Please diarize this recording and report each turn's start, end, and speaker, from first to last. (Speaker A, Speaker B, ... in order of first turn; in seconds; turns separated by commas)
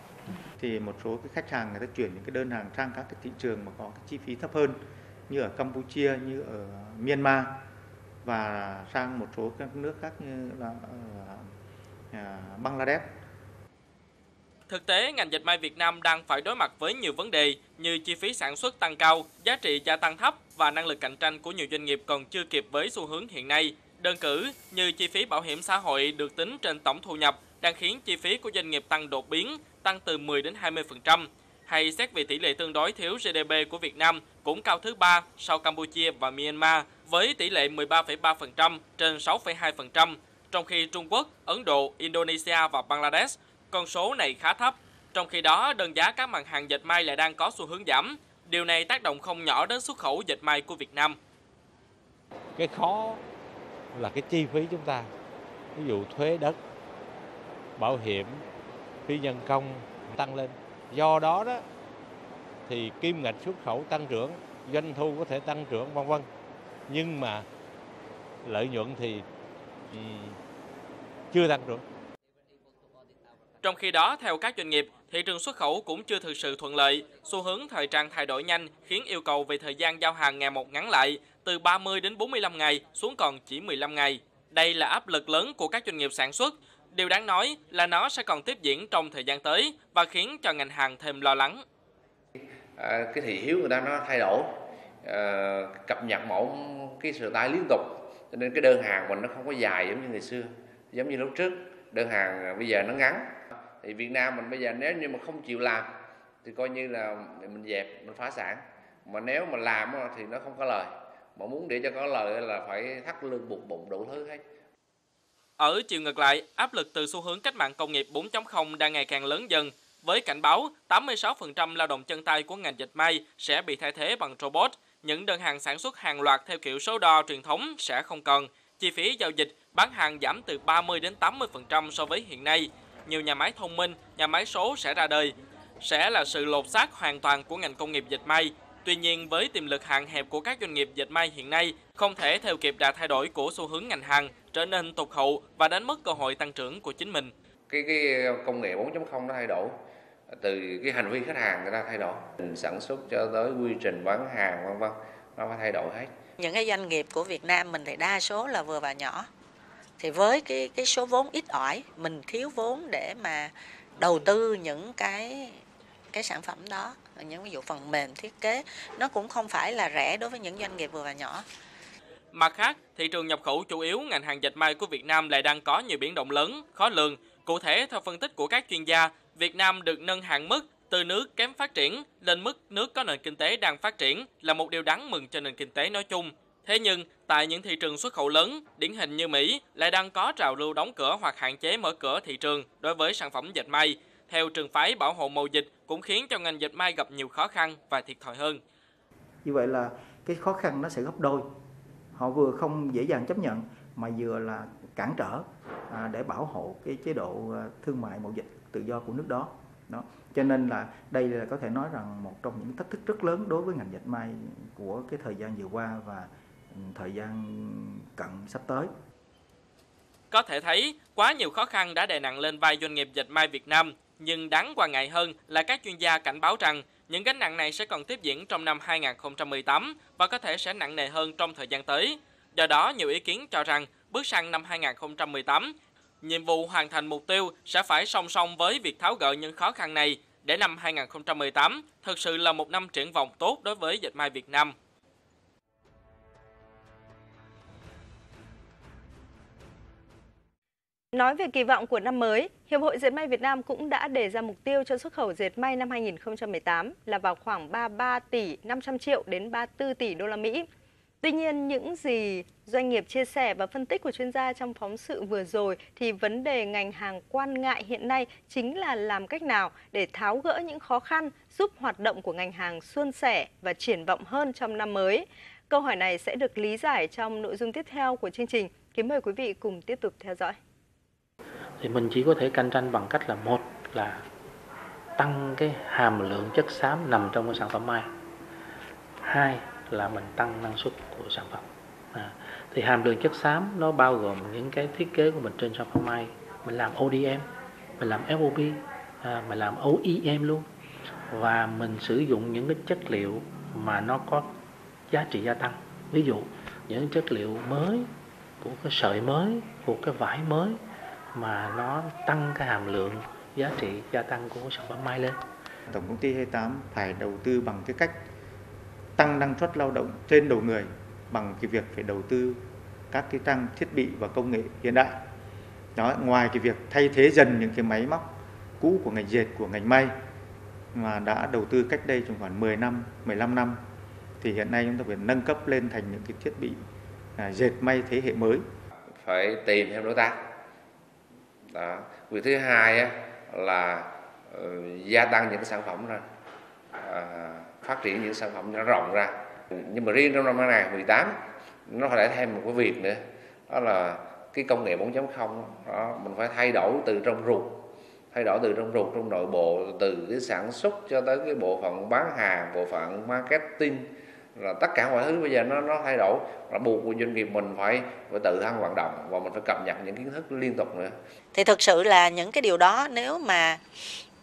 Speaker A: 0.6-4.8, Speaker A: 5.3-7.5, Speaker A: 8.2-11.4, Speaker A: 12.1-13.0, Speaker B: 14.7-51.2, Speaker C: 52.6-53.2, Speaker C: 53.9-55.1, Speaker C: 55.8-56.6, Speaker C: 57.8-58.4, Speaker C: 59.1-61.6, Speaker C: 62.7-66.3, Speaker C: 66.9-67.5, Speaker C: 68.4-69.2, Speaker C: 69.9-70.4, Speaker C: 71.3-71.8, Speaker B: 73.6-91.6, Speaker D: 92.8-94.5, Speaker D: 95.0-103.3, Speaker D: 103.8-105.9, Speaker D: 106.4-114.4, Speaker B: 115.6-147.3, Speaker D: 147.7-149.8, Speaker D: 150.3-156.1, Speaker E: 156.4-159.3, Speaker E: 160.0-165.6, Speaker E: 166.1-171.4, Speaker B: 172.3-198.6, Speaker F: 199.4-201.4, Speaker F: 202.1-218.9, Speaker B: 220.3-244.7, Speaker G: 251.1-260.6, Speaker G: 261.2-280.6, Speaker H: 281.8-284.2, Speaker H: 285.2-288.1, Speaker H: 289.2-300.6, Speaker H: 301.3-304.5, Speaker H: 305.1-308.1, Speaker H: 308.6-310.8, Speaker H: 311.3-315.4, Speaker A: 315.9-318.1, Speaker A: 319.2-322.6, Speaker A: 323.1-325.1, Speaker A: 325.9-328.2, Speaker A: 328.8-330.1, Speaker A: 330.9-333.8, Speaker A: 334.4-336.8, Speaker A: 337.4-338.6, Speaker D: 339.2-340.4, Speaker D: 341.7-346.2, Speaker D: 347.0-371.1, Speaker E: 371.5-373.8